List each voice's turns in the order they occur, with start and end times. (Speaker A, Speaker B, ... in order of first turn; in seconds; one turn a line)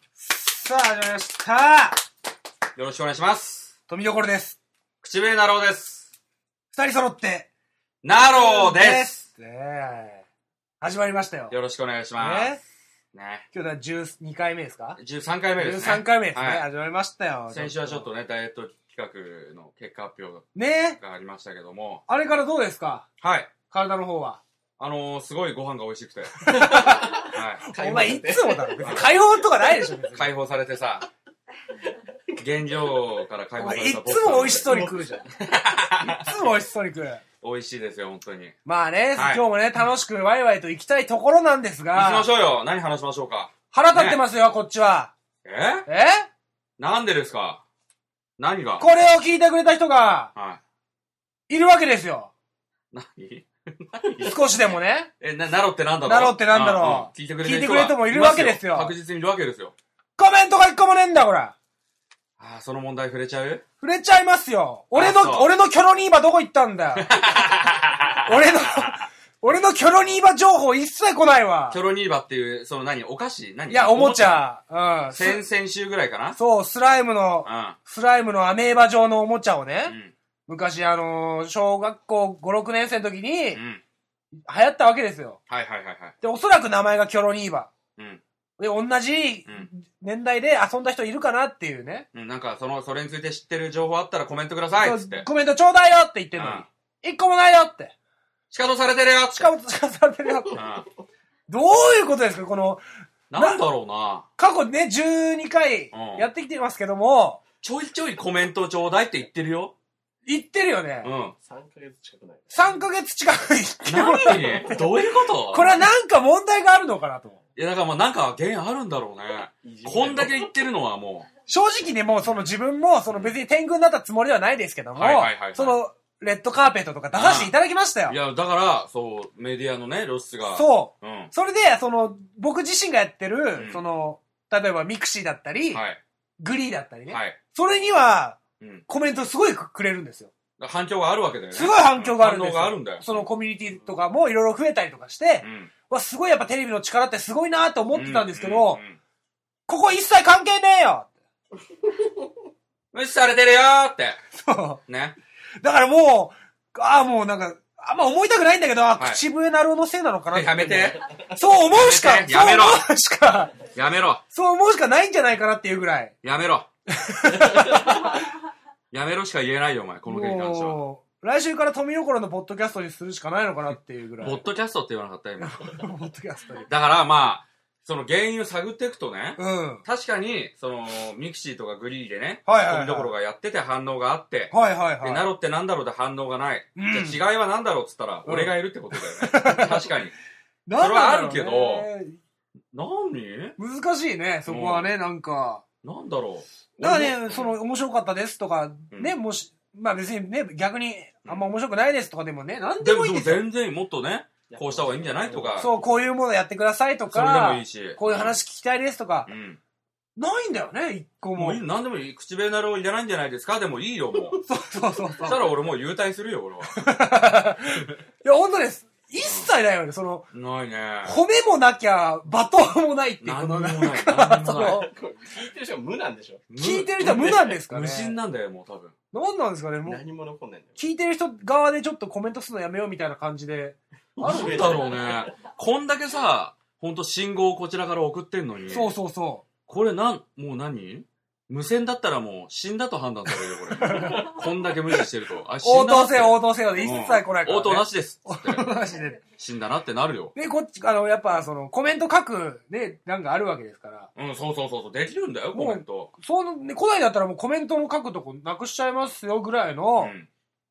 Speaker A: 0.2-2.0
Speaker B: 2.8-3.7
Speaker A: 3.9-4.6
Speaker B: 5.0-6.1
Speaker A: 6.7-7.5
Speaker B: 8.0-9.1
Speaker A: 8.2-10.2
Speaker A: 10.8-11.5
Speaker B: 11.5-12.6
Speaker A: 12.2-12.6
Speaker B: 13.1-13.4
Speaker A: 13.5-15.0
Speaker B: 15.0-16.6
Speaker A: 15.6-18.1
Speaker B: 17.5-22.0
Speaker A: 20.5-21.0
Speaker A: 22.1-23.1
Speaker B: 23.2-23.5
Speaker A: 23.7-24.4
Speaker B: 24.8-27.6
Speaker C: 26.4-30.0
Speaker A: 26.4-30.3
Speaker B: 28.8-29.1
Speaker B: 30.1-31.1
Speaker C: 31.8-32.4
Speaker B: 32.4-36.4
Speaker A: 33.6-35.2
Speaker C: 34.6-35.2
Speaker A: 36.0-37.2
Speaker B: 37.4-38.5
Speaker A: 38.6-42.3
Speaker B: 39.1-39.4
Speaker B: 41.9-44.2
Speaker A: 43.7-45.1
Speaker B: 45.4-45.9
Speaker A: 45.9-46.3
Speaker B: 46.8-47.6
Speaker B: 48.4-48.9
Speaker A: 48.8-50.3
Speaker B: 50.3-50.6
Speaker A: 51.5-52.3
Speaker B: 52.9-54.5
Speaker A: 54.2-55.1
Speaker B: 55.2-59.7
Speaker A: 56.0-58.9
Speaker A: 60.2-61.5
Speaker B: 62.4-63.6
Speaker A: 63.8-67.2
Speaker B: 64.9-65.5
Speaker B: 67.0-69.0
Speaker A: 68.2-71.8
Speaker B: 71.7-74.5
Speaker A: 73.7-75.4
Speaker B: 75.1-76.4
Speaker A: 76.3-83.6
Speaker B: 77.4-77.8
Speaker B: 79.8-80.1
Speaker B: 83.5-83.8
Speaker A: 84.5-85.4
Speaker B: 85.5-86.2
Speaker A: 86.2-87.7
Speaker B: 88.0-88.2
Speaker A: 88.6-92.1
Speaker B: 92.1-95.3
Speaker A: 94.8-97.9
Speaker B: 96.3-96.7
Speaker B: 98.5-99.5
Speaker A: 99.3-100.6
Speaker C: 100.5-100.8
Speaker B: 100.5-100.8
Speaker A: 101.5-102.8
Speaker B: 103.3-104.3
Speaker A: 103.3-103.6
Speaker A: 104.4-107.4
Speaker B: 105.9-106.2
Speaker B: 107.6-109.7
Speaker A: 110.2-111.1
Speaker B: 111.0-111.3
Speaker C: 111.4-112.8
Speaker A: 112.5-114.9
Speaker B: 113.8-115.8
Speaker C: 114.4-114.8
Speaker A: 115.5-117.4
Speaker B: 117.5-121.3
Speaker C: 119.6-120.5
Speaker A: 121.5-128.2
Speaker B: 122.2-122.5
Speaker B: 125.0-125.8
Speaker B: 127.1-127.5
Speaker B: 128.1-131.3
Speaker A: 130.5-135.8
Speaker B: 133.5-133.8
Speaker B: 135.7-136.0
Speaker A: 136.4-140.3
Speaker B: 137.1-137.4
Speaker B: 138.6-138.8
Speaker B: 140.6-143.2
Speaker A: 141.5-148.8
Speaker B: 145.4-145.7
Speaker B: 147.9-149.0
Speaker A: 149.7-151.1
Speaker C: 151.8-152.2
Speaker B: 152.9-154.2
Speaker A: 154.3-154.8
Speaker B: 154.9-155.2
Speaker A: 155.6-163.6
Speaker B: 159.0-159.2
Speaker B: 160.3-161.1
Speaker B: 161.7-162.8
Speaker B: 163.7-164.2
Speaker A: 164.3-166.1
Speaker B: 166.2-166.7
Speaker A: 166.9-168.2
Speaker C: 167.3-168.0
Speaker B: 168.9-170.8
Speaker A: 170.1-174.4
Speaker B: 174.2-175.8
Speaker A: 175.4-176.7
Speaker B: 176.7-190.1
Speaker A: 179.4-179.8
Speaker A: 182.4-183.1
Speaker A: 184.5-185.2
Speaker A: 186.8-187.2
Speaker A: 188.2-189.9
Speaker A: 190.7-192.2
Speaker B: 190.8-191.9
Speaker B: 192.7-193.6
Speaker A: 193.6-195.6
Speaker B: 194.5-194.9
Speaker B: 195.8-197.5
Speaker A: 196.8-203.4
Speaker B: 202.8-205.7
Speaker C: 204.5-206.0
Speaker A: 205.6-209.3
Speaker B: 207.1-208.4
Speaker B: 209.3-209.6
Speaker A: 210.2-211.6
Speaker B: 211.3-214.4
Speaker A: 214.4-215.5
Speaker B: 215.2-216.8
Speaker A: 216.7-220.3
Speaker B: 219.2-219.5
Speaker B: 220.3-221.2
Speaker A: 221.0-224.9
Speaker B: 223.2-224.8
Speaker C: 224.5-226.4
Speaker B: 226.5-228.9
Speaker A: 226.6-228.2
Speaker A: 229.1-230.0
Speaker C: 229.8-230.8
Speaker A: 230.8-234.8
Speaker C: 234.2-235.3
Speaker B: 234.2-238.9
Speaker A: 238.7-239.4
Speaker B: 239.7-248.7
Speaker A: 243.8-244.3
Speaker C: 243.8-244.4
Speaker A: 245.6-249.2
Speaker B: 249.3-250.3
Speaker A: 250.3-254.1
Speaker B: 254.2-256.1
Speaker A: 255.5-260.1
Speaker B: 260.0-260.3